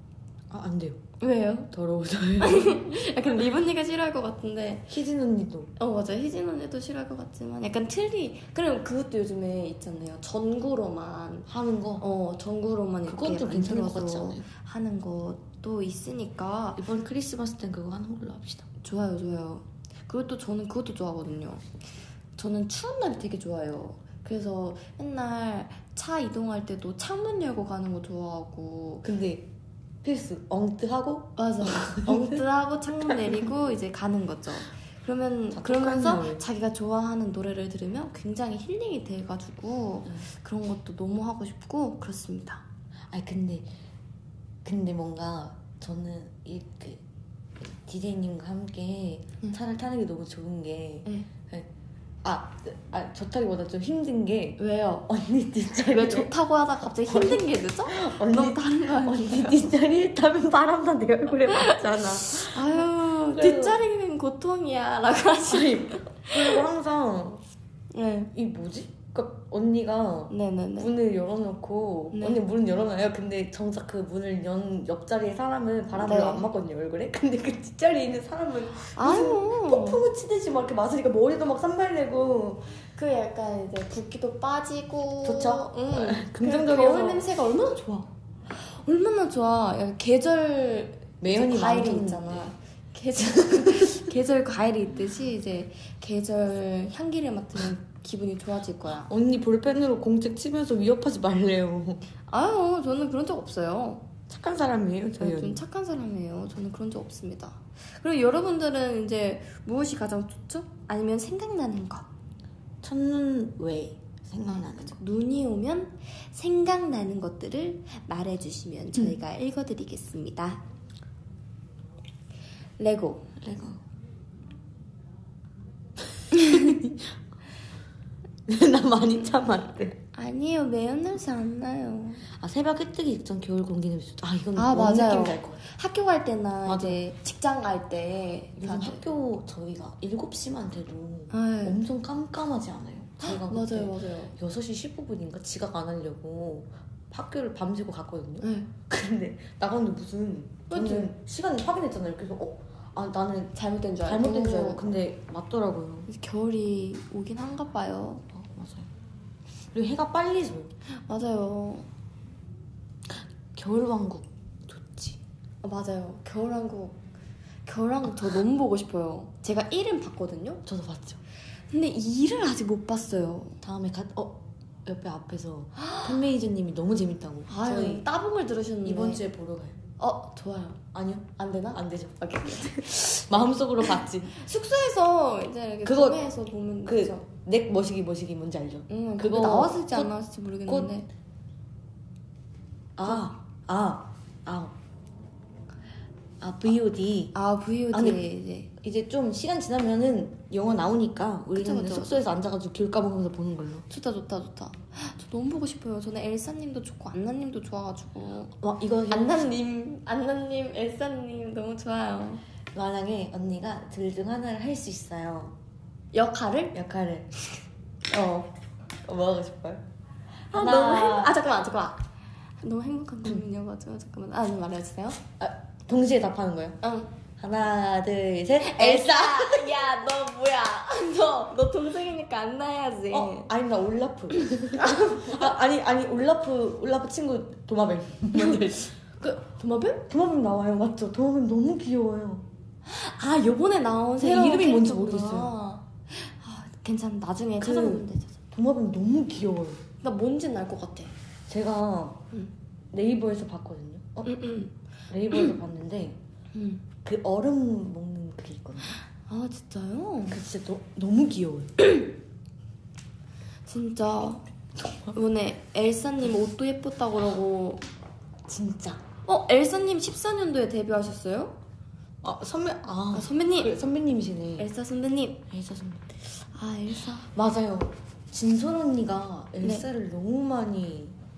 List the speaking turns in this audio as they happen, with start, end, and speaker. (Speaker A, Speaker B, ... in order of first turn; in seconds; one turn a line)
Speaker A: 0.5-1.0
Speaker B: 1.2-1.7
Speaker A: 1.7-3.0
Speaker B: 2.4-4.9
Speaker A: 4.9-5.7
Speaker B: 5.8-11.5
Speaker A: 11.4-12.1
Speaker B: 12.0-16.8
Speaker A: 13.1-14.4
Speaker A: 16.8-18.7
Speaker B: 18.8-21.6
Speaker B: 22.4-29.1
Speaker A: 29.0-29.5
Speaker A: 30.0-32.4
Speaker B: 31.4-42.6
Speaker A: 33.0-33.3
Speaker A: 35.5-36.4
Speaker A: 43.1-43.7
Speaker A: 44.6-47.0
Speaker A: 47.6-51.7
Speaker A: 52.2-56.3
Speaker B: 54.6-55.0
Speaker B: 55.8-59.6
Speaker A: 57.0-63.8
Speaker B: 61.5-66.6
Speaker A: 65.5-67.4
Speaker B: 67.9-68.3
Speaker A: 68.3-82.6
Speaker B: 70.3-70.9
Speaker B: 72.1-72.4
Speaker B: 75.9-76.5
Speaker B: 78.9-80.0
Speaker B: 83.0-99.1
Speaker A: 85.2-87.3
Speaker A: 91.2-92.5
Speaker A: 93.3-94.0
Speaker A: 99.0-102.0
Speaker B: 102.3-104.0
Speaker A: 104.3-105.6
Speaker B: 105.2-112.1
Speaker A: 112.8-115.0
Speaker B: 114.8-120.6
Speaker B: 122.8-123.2
Speaker A: 123.4-123.8
Speaker A: 126.3-127.1
Speaker B: 126.3-126.7
Speaker A: 128.5-130.0
Speaker B: 130.1-132.2
Speaker A: 132.2-135.6
Speaker B: 134.6-139.0
Speaker A: 136.7-137.0
Speaker A: 138.6-156.1
Speaker B: 141.3-141.8
Speaker B: 143.2-144.3
Speaker B: 148.4-148.7
Speaker B: 150.7-151.1
Speaker B: 153.5-154.8
Speaker B: 156.1-158.2
Speaker A: 158.3-158.9
Speaker A: 159.7-160.7
Speaker B: 161.0-161.9
Speaker A: 163.0-165.2
Speaker B: 165.6-167.0
Speaker B: 167.7-170.6
Speaker A: 170.7-171.2
Speaker B: 171.7-173.6
Speaker A: 173.6-178.0
Speaker B: 175.8-176.2
Speaker B: 177.5-179.2
Speaker A: 178.8-179.8
Speaker B: 180.0-180.8
Speaker A: 180.9-184.4
Speaker B: 181.4-187.2
Speaker A: 185.8-186.2
Speaker A: 186.8-190.1
Speaker B: 188.9-191.1
Speaker A: 193.0-194.7
Speaker A: 196.4-197.3
Speaker B: 197.3-198.7
Speaker A: 197.9-198.2
Speaker A: 198.8-203.8
Speaker B: 201.6-202.2
Speaker B: 203.9-208.6
Speaker A: 208.6-209.5
Speaker B: 209.1-212.4
Speaker A: 212.7-215.5
Speaker B: 216.1-216.8
Speaker A: 216.7-217.3
Speaker B: 218.1-218.5
Speaker A: 219.0-219.8
Speaker A: 220.5-221.4
Speaker B: 220.5-222.0
Speaker B: 222.6-225.2
Speaker A: 225.4-226.8
Speaker B: 226.8-227.1
Speaker A: 227.4-229.8
Speaker B: 228.6-233.5
Speaker A: 233.1-238.9
Speaker B: 234.7-235.4
Speaker B: 238.3-238.6
Speaker B: 239.2-240.1
Speaker A: 240.1-242.4
Speaker B: 242.8-248.3
Speaker A: 244.2-245.5
Speaker A: 247.6-249.8
Speaker B: 250.0-251.1
Speaker A: 251.5-252.2
Speaker A: 252.9-254.4
Speaker B: 254.2-254.7
Speaker A: 255.1-256.2
Speaker B: 256.5-256.8
Speaker A: 257.0-259.0
Speaker B: 259.3-260.4
Speaker A: 260.3-261.8
Speaker B: 263.6-264.4
Speaker A: 264.8-265.1
Speaker B: 265.1-267.8
Speaker A: 268.5-269.0
Speaker B: 269.2-271.6
Speaker A: 272.2-274.7
Speaker B: 273.1-273.8
Speaker B: 274.6-275.4
Speaker A: 275.5-276.0
Speaker B: 276.2-277.3
Speaker A: 277.3-281.2